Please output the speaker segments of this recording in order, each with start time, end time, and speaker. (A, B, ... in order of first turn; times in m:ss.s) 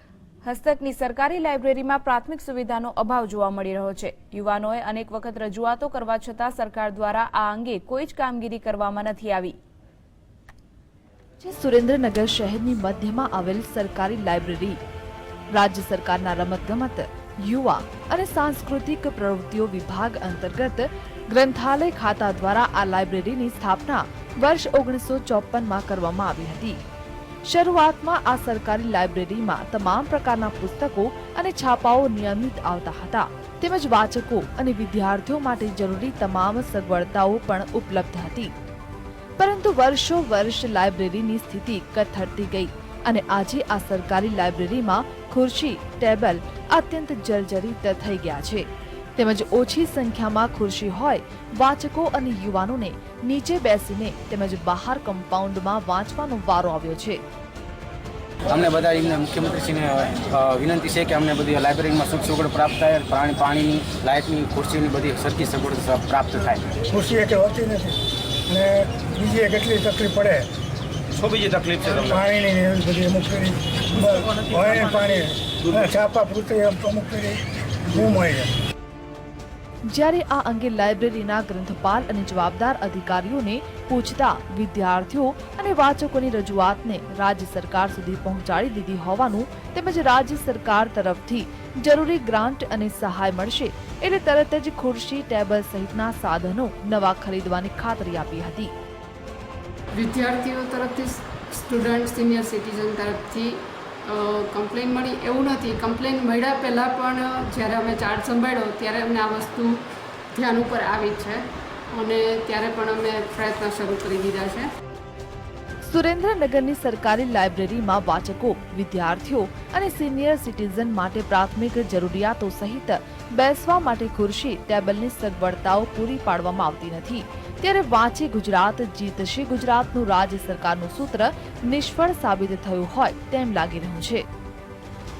0:00.4-0:09.5 A
0:11.4-0:14.8 B
0:15.5-0:26.8 B
0:27.5-0:38.5 B
0:39.4-0:48.6 B
0:49.2-0:57.2 B
0:58.5-1:06.7 C
1:06.9-1:10.5 D
1:11.1-1:12.2 C
1:12.0-1:18.5 D
1:19.9-1:38.7 B
1:40.0-1:43.5 E
1:44.0-1:49.8 E
1:50.3-1:51.4 E
1:51.9-1:54.7 E
1:55.8-2:14.2 B